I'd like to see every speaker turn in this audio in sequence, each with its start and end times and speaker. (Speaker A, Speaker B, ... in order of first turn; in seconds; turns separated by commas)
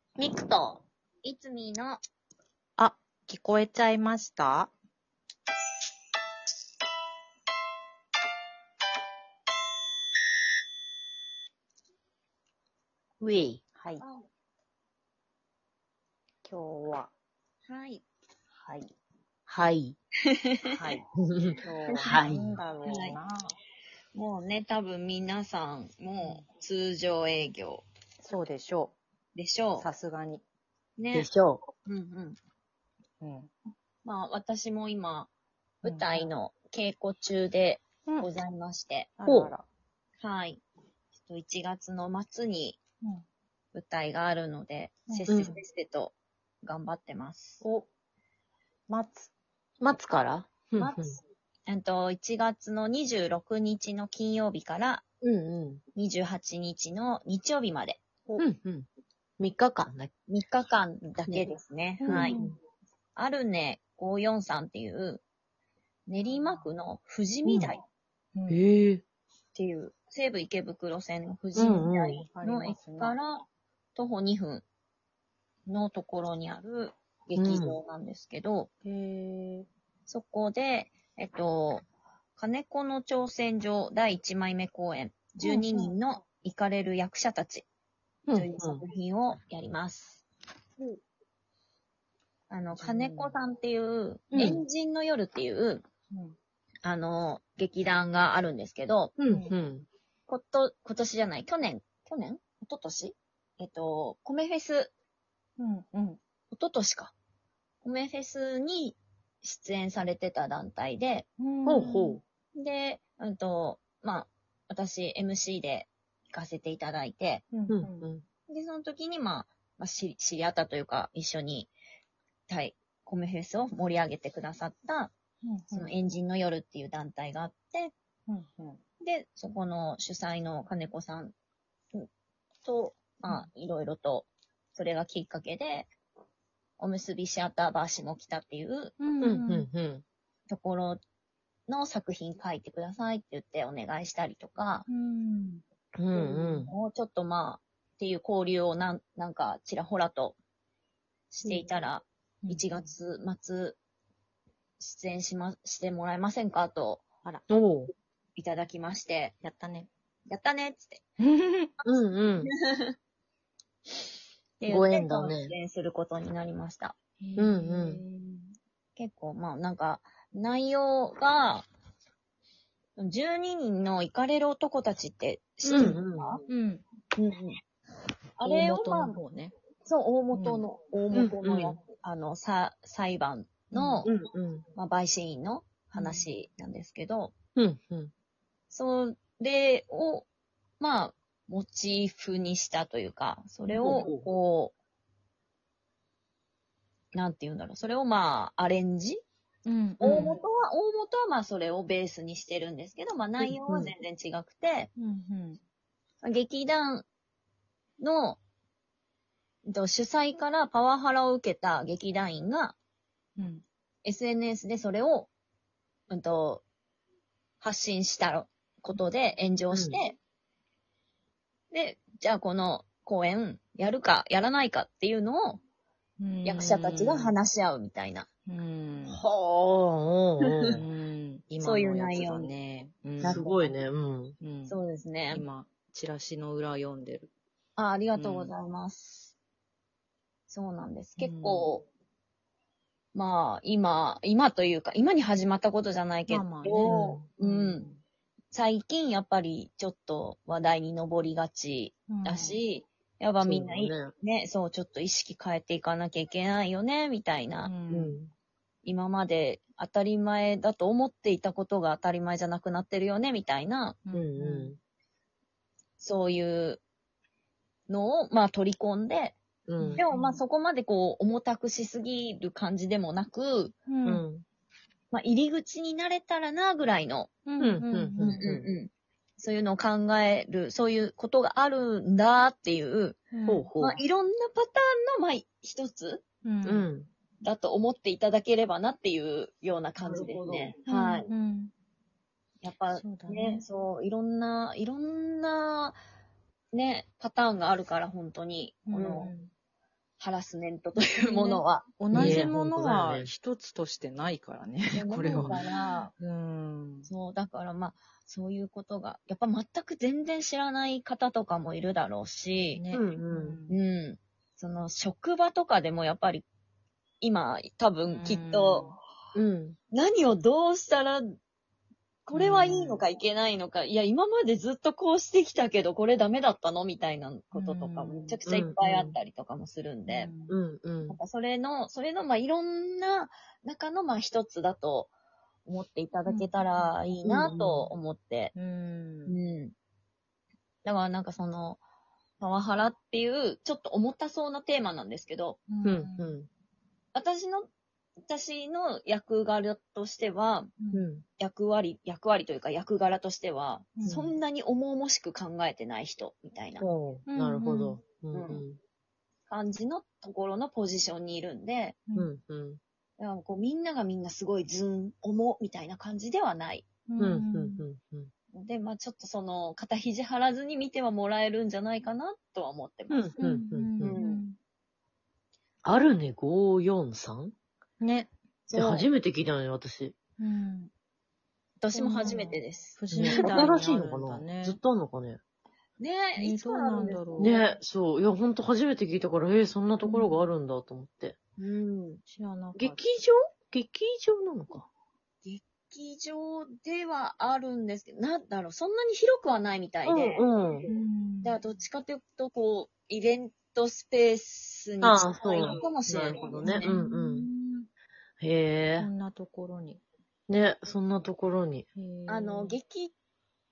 Speaker A: 0.2-0.8, Speaker B: 1.2-2.0, Speaker C: 2.8-4.7, Speaker A: 13.2-13.6, Speaker C: 13.8-14.0, Speaker C: 16.4-17.1, Speaker B: 17.7-18.0, Speaker C: 18.6-18.9, Speaker A: 19.5-19.9, Speaker B: 20.3-20.9, Speaker C: 20.7-21.0, Speaker A: 21.2-22.6, Speaker C: 21.6-23.4, Speaker B: 21.9-22.2, Speaker B: 22.8-23.2, Speaker B: 24.1-27.8, Speaker C: 28.2-29.0, Speaker B: 29.4-29.9, Speaker C: 29.8-30.4, Speaker B: 31.0-31.3, Speaker A: 31.1-31.7, Speaker B: 31.9-32.4, Speaker C: 33.2-33.5, Speaker B: 34.0-35.3, Speaker B: 35.8-39.1, Speaker C: 35.8-36.3, Speaker C: 39.2-39.6, Speaker A: 39.2-39.5, Speaker B: 40.2-40.6, Speaker B: 41.2-42.8, Speaker B: 43.7-47.6, Speaker C: 45.1-45.6, Speaker A: 45.3-45.5, Speaker C: 47.6-47.9, Speaker C: 48.9-49.3, Speaker A: 49.8-51.2, Speaker B: 50.8-55.0, Speaker A: 55.2-55.8, Speaker B: 56.0-58.0, Speaker A: 58.4-58.9, Speaker A: 59.4-60.1, Speaker B: 60.3-62.4, Speaker C: 62.0-62.6, Speaker A: 62.1-62.5, Speaker B: 63.2-65.2, Speaker B: 66.1-67.8, Speaker C: 66.3-66.7, Speaker A: 67.5-67.8, Speaker C: 68.3-68.6, Speaker A: 68.5-69.0, Speaker B: 69.5-73.5, Speaker A: 71.5-72.3, Speaker C: 71.6-73.2, Speaker B: 74.0-74.7, Speaker B: 75.7-78.7, Speaker A: 77.4-77.8, Speaker C: 78.8-79.7, Speaker B: 80.1-81.9, Speaker B: 82.4-87.7, Speaker C: 85.4-85.9, Speaker A: 88.3-88.8, Speaker B: 88.3-90.2, Speaker B: 92.5-95.8, Speaker C: 92.8-93.4, Speaker C: 94.3-94.6, Speaker A: 94.3-94.6, Speaker B: 96.8-99.2, Speaker A: 99.2-99.9, Speaker C: 99.3-99.5, Speaker B: 100.3-104.9, Speaker C: 105.6-106.2, Speaker B: 106.5-107.1, Speaker B: 107.8-111.3, Speaker C: 111.4-112.2, Speaker A: 111.7-112.2, Speaker B: 112.5-117.5, Speaker C: 117.5-118.1, Speaker A: 117.7-118.2, Speaker B: 118.5-121.7, Speaker B: 122.5-125.1, Speaker C: 125.4-126.0, Speaker B: 125.7-127.9, Speaker C: 128.3-128.8, Speaker B: 129.0-131.3, Speaker B: 132.6-135.9, Speaker B: 136.8-139.0, Speaker C: 139.0-139.7, Speaker A: 139.2-140.0, Speaker B: 140.5-141.0, Speaker B: 141.7-144.9, Speaker C: 144.9-145.6, Speaker A: 146.0-146.7, Speaker B: 146.1-150.3, Speaker B: 151.3-153.8, Speaker C: 152.4-152.9, Speaker B: 154.8-157.0, Speaker A: 157.5-157.9, Speaker B: 158.4-159.3, Speaker C: 159.4-159.9, Speaker B: 160.3-161.0, Speaker C: 161.2-161.7, Speaker A: 161.9-162.5, Speaker B: 162.4-162.9, Speaker B: 164.6-166.9, Speaker A: 164.7-165.5, Speaker C: 167.2-168.5, Speaker A: 167.4-168.0, Speaker B: 169.0-171.7, Speaker B: 173.0-176.4, Speaker A: 175.7-176.4, Speaker C: 176.5-176.8, Speaker B: 177.2-177.6, Speaker B: 178.4-179.2, Speaker C: 178.4-179.5, Speaker B: 179.8-184.1, Speaker C: 180.3-180.7, Speaker A: 181.1-181.8, Speaker C: 183.8-184.1, Speaker A: 184.0-184.6, Speaker B: 184.8-187.3, Speaker C: 185.9-186.3, Speaker A: 187.6-188.1, Speaker B: 188.7-190.3, Speaker B: 190.8-194.7, Speaker A: 193.8-194.2, Speaker B: 197.1-199.2, Speaker C: 199.7-200.4, Speaker B: 200.0-204.9, Speaker A: 203.4-203.9, Speaker C: 205.0-205.6, Speaker B: 206.2-207.1, Speaker B: 208.0-208.4, Speaker B: 209.7-212.8, Speaker C: 213.4-213.6, Speaker B: 214.1-215.3, Speaker B: 216.1-216.6, Speaker B: 217.6-220.2, Speaker A: 219.7-220.0, Speaker B: 221.7-225.6, Speaker C: 226.2-227.3, Speaker B: 226.4-228.3, Speaker C: 228.5-229.2, Speaker A: 229.1-230.8, Speaker B: 230.4-230.7, Speaker C: 230.8-233.5, Speaker B: 231.6-232.6, Speaker B: 233.2-233.7, Speaker A: 233.2-234.4, Speaker C: 234.4-234.8, Speaker B: 234.7-235.5, Speaker C: 235.3-237.3, Speaker B: 237.8-239.3, Speaker C: 238.2-238.5, Speaker B: 240.5-241.9, Speaker C: 241.2-241.7, Speaker B: 243.1-247.9, Speaker C: 246.3-248.0, Speaker A: 246.8-247.2, Speaker B: 248.5-257.8, Speaker C: 252.1-252.6, Speaker A: 253.4-254.1, Speaker C: 257.6-258.2, Speaker A: 257.9-258.3, Speaker B: 258.9-264.0, Speaker C: 264.1-264.8, Speaker A: 264.1-264.8, Speaker B: 266.0-266.8, Speaker B: 267.9-269.4, Speaker A: 269.7-270.0, Speaker C: 269.8-270.4, Speaker B: 269.9-273.8, Speaker C: 273.9-274.2, Speaker A: 274.1-274.4, Speaker B: 275.1-277.4, Speaker C: 277.5-278.4, Speaker A: 277.6-278.7, Speaker B: 278.2-283.2, Speaker C: 283.3-283.7, Speaker A: 283.5-284.0, Speaker B: 283.8-286.2, Speaker C: 286.4-286.9, Speaker A: 286.6-287.1, Speaker B: 287.4-291.3, Speaker A: 290.0-290.8, Speaker C: 290.9-291.7, Speaker B: 292.6-296.0, Speaker C: 292.9-293.6, Speaker B: 296.7-299.3, Speaker C: 298.9-299.5, Speaker B: 300.2-302.0, Speaker C: 301.2-307.1, Speaker A: 302.1-303.3, Speaker B: 304.9-306.1, Speaker A: 305.3-305.6, Speaker B: 307.1-312.8, Speaker C: 312.7-313.8, Speaker A: 312.9-313.6, Speaker B: 313.7-316.4, Speaker B: 317.2-319.0, Speaker C: 318.1-319.0, Speaker A: 319.4-319.8, Speaker B: 319.9-321.3, Speaker B: 322.3-330.3, Speaker A: 322.4-322.8, Speaker C: 327.5-328.4, Speaker A: 328.5-329.2, Speaker C: 330.1-330.6, Speaker A: 330.5-331.2, Speaker B: 331.1-335.1, Speaker B: 335.7-338.6, Speaker C: 336.3-336.9, Speaker A: 337.2-337.9, Speaker C: 338.6-339.4, Speaker B: 339.3-339.7, Speaker B: 340.9-341.8, Speaker B: 342.4-345.6, Speaker C: 345.7-346.4, Speaker A: 345.8-346.5, Speaker B: 347.1-347.7, Speaker B: 348.2-350.7, Speaker C: 350.8-351.1, Speaker A: 350.9-351.2, Speaker B: 351.4-356.9, Speaker C: 354.0-354.3, Speaker A: 354.0-354.3, Speaker A: 356.8-358.8, Speaker C: 357.3-358.0, Speaker B: 358.3-358.6, Speaker B: 359.5-362.0, Speaker A: 362.1-362.8, Speaker B: 363.2-366.9, Speaker C: 367.1-367.9, Speaker A: 367.2-368.3, Speaker B: 368.5-373.4, Speaker A: 373.1-374.2, Speaker C: 373.4-374.6, Speaker B: 374.0-374.4, Speaker A: 375.8-377.5, Speaker C: 378.0-378.3, Speaker B: 378.7-379.1, Speaker A: 378.8-380.2, Speaker C: 380.4-380.9, Speaker B: 381.8-383.8, Speaker C: 381.9-384.8, Speaker A: 383.1-385.4, Speaker B: 386.0-387.7, Speaker C: 386.4-387.6, Speaker A: 387.4-392.2, Speaker C: 390.0-390.5, Speaker B: 391.6-392.1, Speaker C: 392.3-393.0, Speaker A: 392.8-394.9, Speaker B: 395.4-400.4, Speaker A: 400.0-400.9, Speaker C: 400.9-401.6, Speaker B: 401.4-406.9, Speaker A: 405.0-407.5, Speaker C: 406.4-407.9, Speaker A: 408.4-409.1, Speaker C: 409.0-410.0, Speaker A: 410.5-411.9, Speaker C: 412.0-412.8, Speaker B: 412.3-413.1